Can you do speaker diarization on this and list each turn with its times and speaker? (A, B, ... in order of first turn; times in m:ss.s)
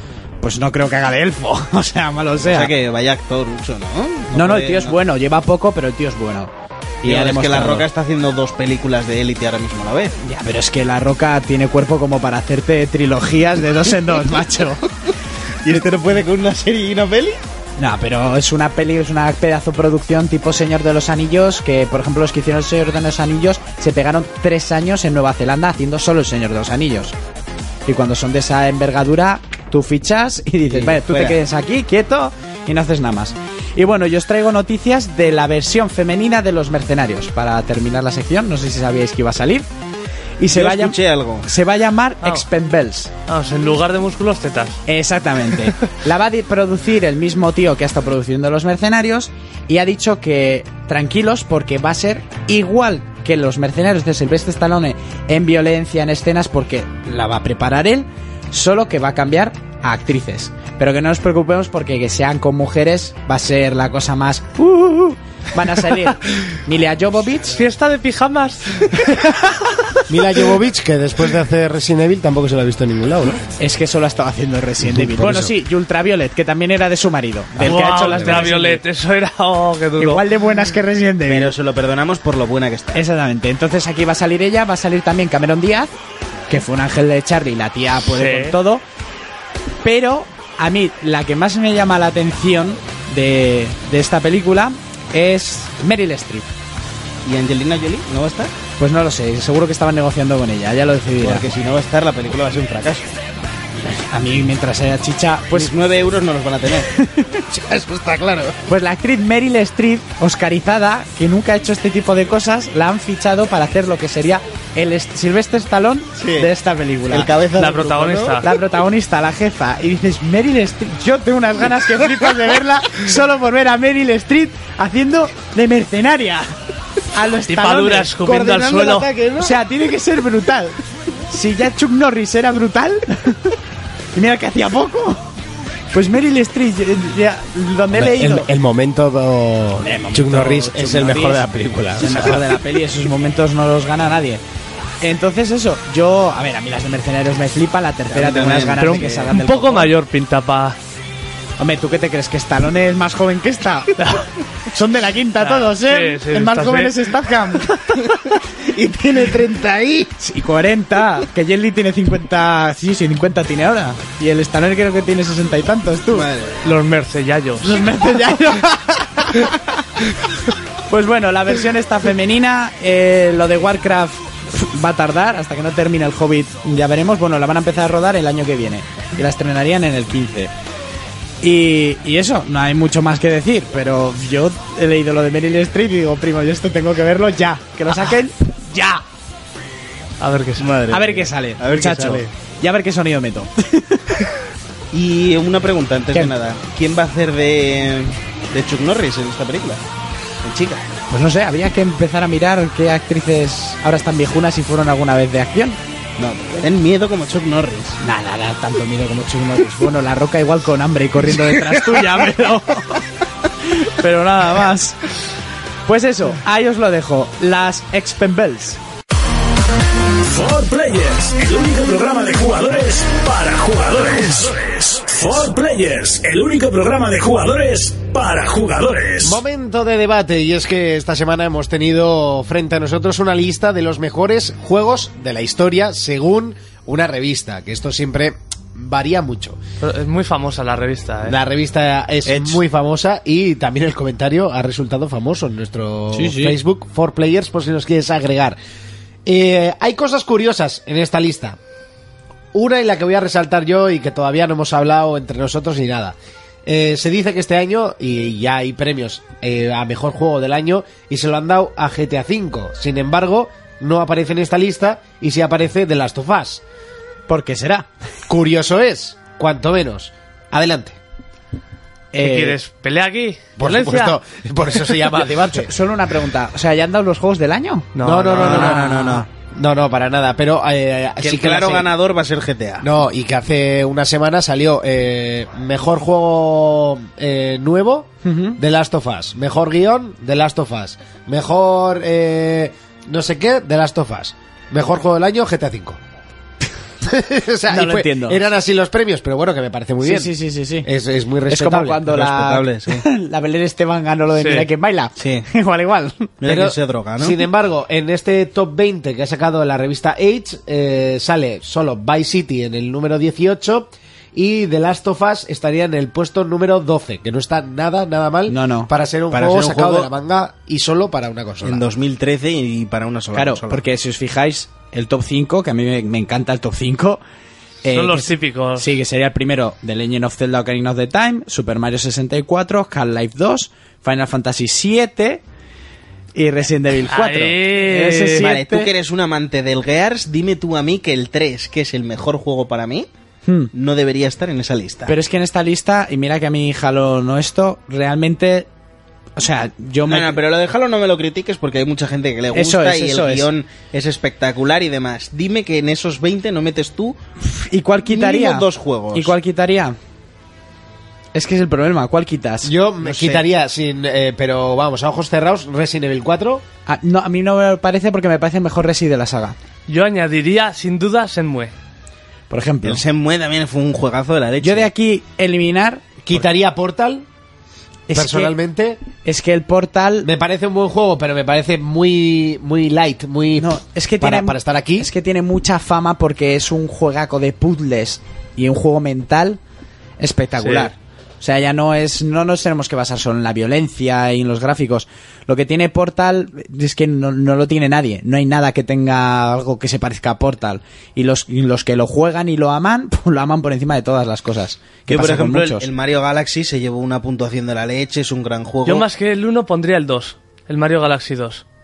0:00.4-0:02.7 A
0:02.4-0:05.0 B
0:04.3-0:06.5 A
0:07.0-0:07.9 A
0:07.0-0:10.2 B
0:10.2-0:14.9 A
0:15.6-0:17.4 B
0:17.8-0:27.1 A
0:27.9-0:39.7 A
0:30.7-0:31.4 B
0:40.4-0:43.1 A
0:40.5-0:41.5 B
0:43.3-0:44.8 C
0:44.9-1:07.6 A
1:07.6-1:09.3 C
1:10.1-1:13.4 D
1:13.6-1:18.8 A
1:14.8-1:15.5 D
1:17.6-1:20.2 C
1:20.0-1:21.5 A
1:21.2-1:23.0 B
1:22.9-1:25.9 A
1:26.5-1:28.8 A
1:28.1-1:28.6 C
1:29.8-1:36.5 A
1:37.2-1:38.5 B
1:38.8-1:41.5 A
1:41.2-1:43.1 B
1:43.9-1:45.7 A
1:45.5-1:46.9 B
1:46.9-1:47.4 A
1:47.5-1:48.5 D
1:48.7-1:57.4 A
1:56.2-1:56.5 B
1:57.1-1:58.4 B
1:57.6-1:58.4 C
1:58.4-2:06.5 A
2:07.1-2:08.1 A
2:07.5-2:09.1 C
2:08.3-2:09.5 B
2:09.4-2:10.8 A
2:11.3-2:13.6 A
2:14.1-2:15.3 A
2:15.9-2:18.5 A
2:17.9-2:22.4 D
2:19.8-2:24.4 A
2:25.0-2:29.9 A
2:28.1-2:29.3 B
2:28.8-2:30.8 C
2:31.6-2:38.3 A
2:35.4-2:37.1 C
2:38.7-2:40.1 B
2:40.2-2:46.3 A
2:46.1-2:46.6 B
2:46.6-2:47.9 C
2:47.6-2:50.0 A
2:50.9-3:00.5 A
3:01.4-3:09.0 A
3:10.2-3:10.7 C
3:10.6-3:12.3 B
3:10.9-3:14.3 A
3:14.9-3:19.8 B
3:20.4-3:21.0 B
3:21.1-3:25.8 A
3:26.2-3:28.0 B
3:28.0-3:33.0 A
3:33.7-3:35.0 A
3:35.9-3:38.8 A
3:40.2-3:49.4 E
3:49.2-3:59.6 D
3:59.8-4:01.4 C
4:01.2-4:08.6 D
4:02.2-4:02.6 B
4:06.1-4:06.6 A
4:09.2-4:11.6 D
4:12.5-4:26.6 D
4:27.3-4:27.9 A
4:28.3-4:31.0 D
4:32.1-4:32.6 A
4:32.2-4:34.2 C
4:33.6-4:35.7 D
4:35.4-4:39.2 A
4:38.0-4:38.8 C
4:38.0-4:38.8 D
4:38.3-4:39.2 B
4:39.4-4:41.9 D
4:41.2-4:42.9 B
4:42.8-4:56.0 D
4:48.2-4:48.6 A
4:57.0-5:02.0 D
4:57.7-4:58.4 A
5:00.0-5:00.9 A
5:01.5-5:06.3 A
5:02.0-5:03.0 B
5:04.4-5:04.7 C
5:05.2-5:05.5 B
5:06.4-5:07.4 B
5:06.4-5:21.8 D
5:18.5-5:18.9 A
5:19.3-5:20.1 B
5:21.6-5:23.8 B
5:23.3-5:27.2 A
5:27.8-5:35.4 A
5:27.9-5:28.9 C
5:36.3-5:38.9 A
5:37.1-5:38.5 C
5:38.3-5:43.1 B
5:43.5-5:43.7 A
5:43.7-5:45.1 B
5:45.1-5:48.7 A
5:49.4-5:50.4 A
5:50.0-5:57.2 B
5:52.5-5:53.5 A
5:57.4-6:00.0 A
5:58.0-5:59.3 B
6:01.3-6:03.4 A
6:02.6-6:06.6 D
6:06.9-6:09.6 A
6:09.9-6:11.7 C
6:12.5-6:13.0 A
6:12.8-6:14.9 B
6:14.6-6:16.2 A
6:16.2-6:17.2 D
6:18.1-6:18.5 A
6:18.1-6:19.0 D
6:19.2-6:20.3 A
6:20.2-6:25.1 D
6:23.6-6:29.6 A
6:30.2-6:45.9 A
6:45.1-6:49.1 B
6:48.8-6:51.6 C